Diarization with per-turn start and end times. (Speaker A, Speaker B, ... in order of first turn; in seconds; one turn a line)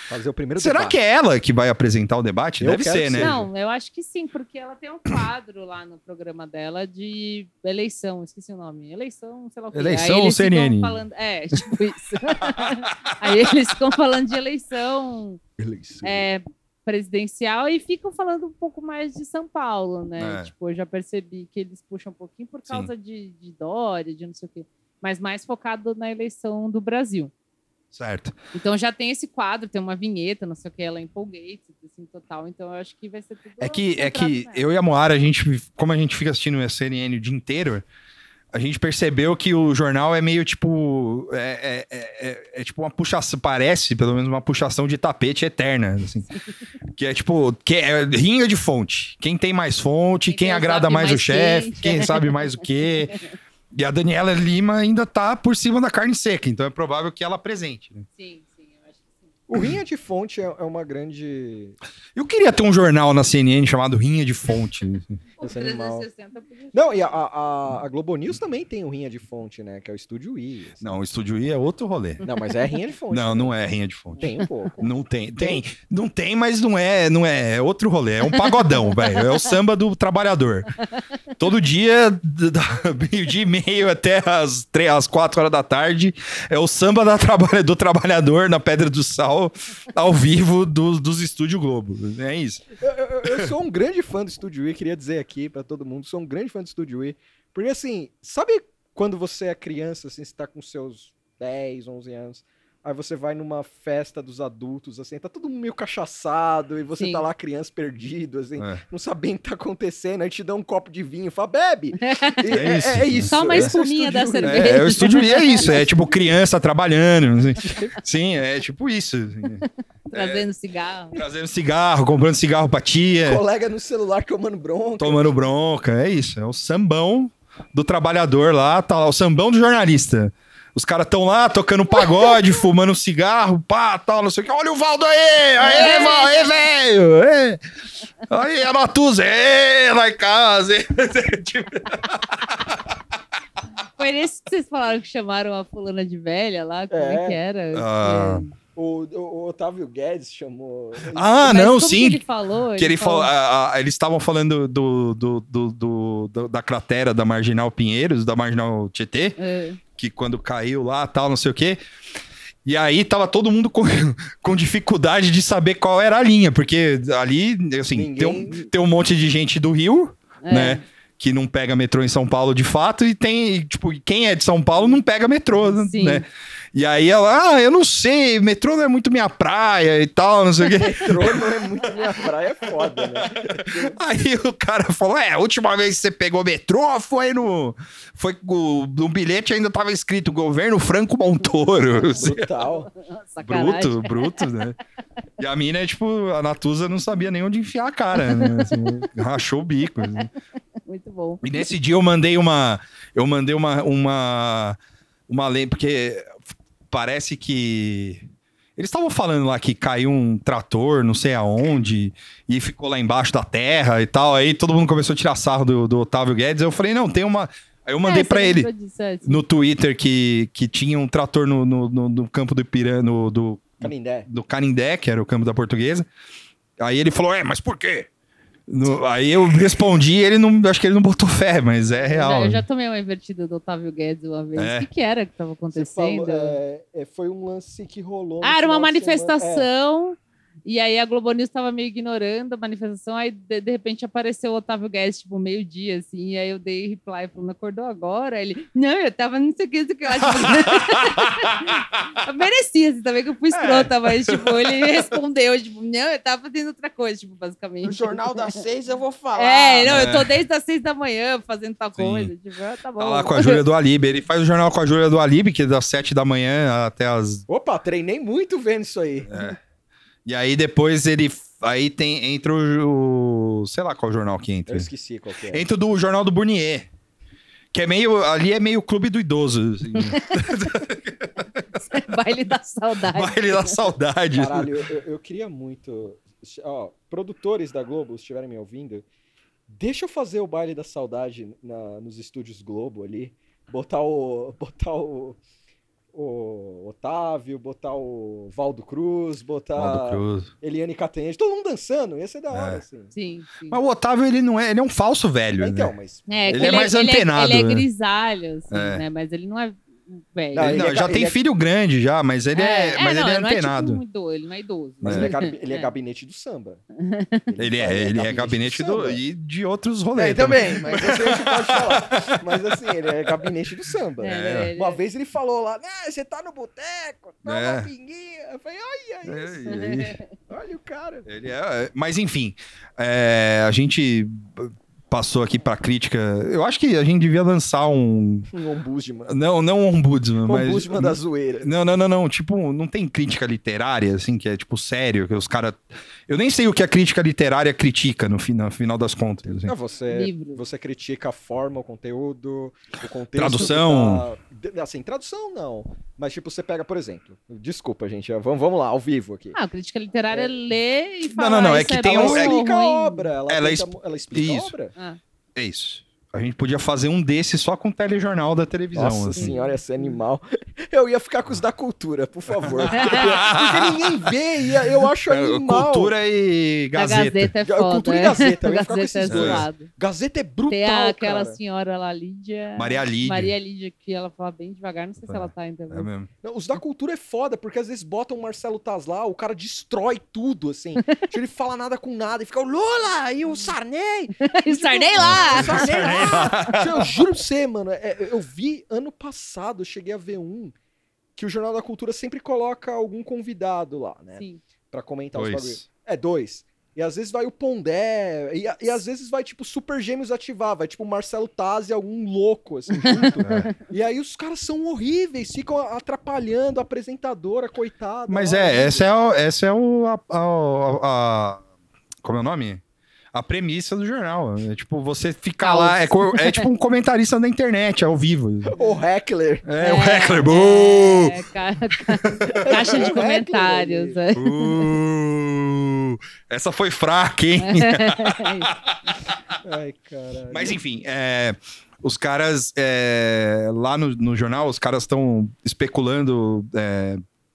Speaker A: 0.1-1.0
Speaker B: 0.6-3.4
Speaker A: 2.6-3.4
Speaker C: 3.1-15.4
Speaker B: 9.7-11.0
Speaker B: 12.4-13.5
Speaker A: 15.6-16.2
Speaker C: 16.0-27.3
Speaker B: 20.2-20.5
Speaker B: 27.9-28.3
Speaker C: 28.5-34.7
Speaker B: 33.6-37.9
Speaker B: 38.5-46.3
Speaker B: 46.9-53.1
Speaker C: 50.3-53.3
Speaker B: 53.7-58.0
Speaker C: 58.1-59.3
Speaker A: 59.5-61.8
Speaker B: 62.1-65.2
Speaker C: 65.4-67.2
Speaker A: 65.4-66.1
Speaker A: 66.7-70.9
Speaker B: 70.8-72.2
Speaker A: 72.2-73.5
Speaker B: 73.1-74.2
Speaker A: 74.2-74.8
Speaker B: 74.8-80.7
Speaker C: 78.3-79.2
Speaker B: 81.4-92.6
Speaker A: 92.8-116.1
Speaker B: 93.2-93.5
Speaker C: 107.0-107.2
Speaker C: 112.0-112.5
Speaker B: 112.5-113.7
Speaker C: 113.3-115.8
Speaker B: 114.4-120.5
Speaker A: 117.6-118.0
Speaker C: 120.1-121.2
Speaker B: 121.1-123.4
Speaker A: 123.2-125.4
Speaker B: 125.0-137.6
Speaker C: 135.6-136.5
Speaker B: 138.2-142.9
Speaker C: 144.0-148.5
Speaker A: 146.9-147.4
Speaker B: 147.7-148.4
Speaker A: 148.7-151.6
Speaker B: 151.1-152.2
Speaker C: 151.4-153.3
Speaker B: 152.8-159.4
Speaker C: 159.4-159.8
Speaker B: 159.9-161.8
Speaker B: 162.6-192.4
Speaker A: 167.9-168.6
Speaker C: 170.4-170.8
Speaker C: 175.6-176.2
Speaker A: 180.7-184.0
Speaker A: 192.1-192.9
Speaker C: 192.6-194.5
Speaker B: 193.4-194.8
Speaker B: 195.4-200.3
Speaker C: 198.1-199.0
Speaker C: 200.8-201.6
Speaker B: 201.4-204.8
Speaker B: 205.3-208.2
Speaker B: 208.8-218.7
Speaker C: 218.0-219.4
Speaker B: 219.2-226.1
Speaker A: 223.8-224.3
Speaker B: 226.8-228.1
Speaker B: 228.7-232.6
Speaker C: 231.9-236.6
Speaker B: 234.6-234.9
Speaker A: 235.7-239.7
Speaker C: 238.4-258.6
Speaker B: 250.2-251.7
Speaker B: 253.5-255.0
Speaker A: 257.8-260.1
Speaker C: 259.3-263.6
Speaker B: 259.8-260.3
Speaker B: 262.0-262.3
Speaker B: 263.0-267.4
Speaker A: 267.5-269.3
Speaker B: 269.3-269.6
Speaker B: 270.2-274.9
Speaker A: 274.7-275.6
Speaker B: 275.5-276.9
Speaker B: 277.7-281.6
Speaker C: 279.9-280.8
Speaker C: 281.7-283.8
Speaker B: 283.1-284.7
Speaker A: 284.3-289.0
Speaker A: 289.7-295.4
Speaker A: 296.1-303.1
Speaker B: 299.8-300.5
Speaker B: 302.5-302.8
Speaker C: 303.1-303.8
Speaker B: 303.7-305.9
Speaker A: 305.6-306.9
Speaker C: 306.3-310.9
Speaker B: 306.5-307.9
Speaker B: 308.7-309.0
Speaker A: 310.5-311.4
Speaker B: 310.6-314.0
Speaker C: 312.5-315.9
Speaker B: 315.0-315.3
Speaker A: 315.0-316.8
Speaker C: 317.0-317.4
Speaker A: 317.5-319.2
Speaker B: 317.6-323.5
Speaker A: 320.1-329.7
Speaker C: 324.2-325.0
Speaker B: 324.3-324.7
Speaker B: 327.4-327.9
Speaker B: 329.2-330.2
Speaker C: 329.6-330.2
Speaker A: 330.5-331.2
Speaker B: 331.2-338.5
Speaker A: 338.5-339.4
Speaker B: 339.3-349.7
Speaker A: 340.4-341.7
Speaker A: 349.5-359.6
Speaker C: 350.1-350.6
Speaker B: 353.3-354.2
Speaker C: 359.5-363.3
Speaker A: 360.3-360.5
Speaker B: 361.3-362.6
Speaker A: 362.0-364.9
Speaker B: 363.5-364.7
Speaker B: 365.5-369.5
Speaker A: 368.9-376.1
Speaker C: 369.4-370.1
Speaker B: 372.6-374.1
Speaker C: 372.9-373.4
Speaker B: 375.2-377.5
Speaker C: 376.9-379.9
Speaker A: 377.6-381.6
Speaker B: 379.3-379.6
Speaker C: 380.7-386.1
Speaker B: 382.8-383.5
Speaker B: 385.3-386.3
Speaker A: 386.4-400.7
Speaker C: 394.4-396.7
Speaker B: 395.2-397.1
Speaker A: 401.4-419.0
Speaker B: 405.3-405.9
Speaker C: 413.0-413.8
Speaker B: 413.4-413.7
Speaker B: 418.3-421.6
Speaker B: 422.2-422.8
Speaker B: 423.3-428.7
Speaker C: 425.6-426.6
Speaker A: 428.7-429.7
Speaker B: 429.6-431.3
Speaker C: 429.8-434.9
Speaker B: 432.2-432.9
Speaker A: 432.5-434.2
Speaker B: 434.3-439.0
Speaker C: 437.6-438.7
Speaker A: 439.6-440.8
Speaker B: 440.5-447.2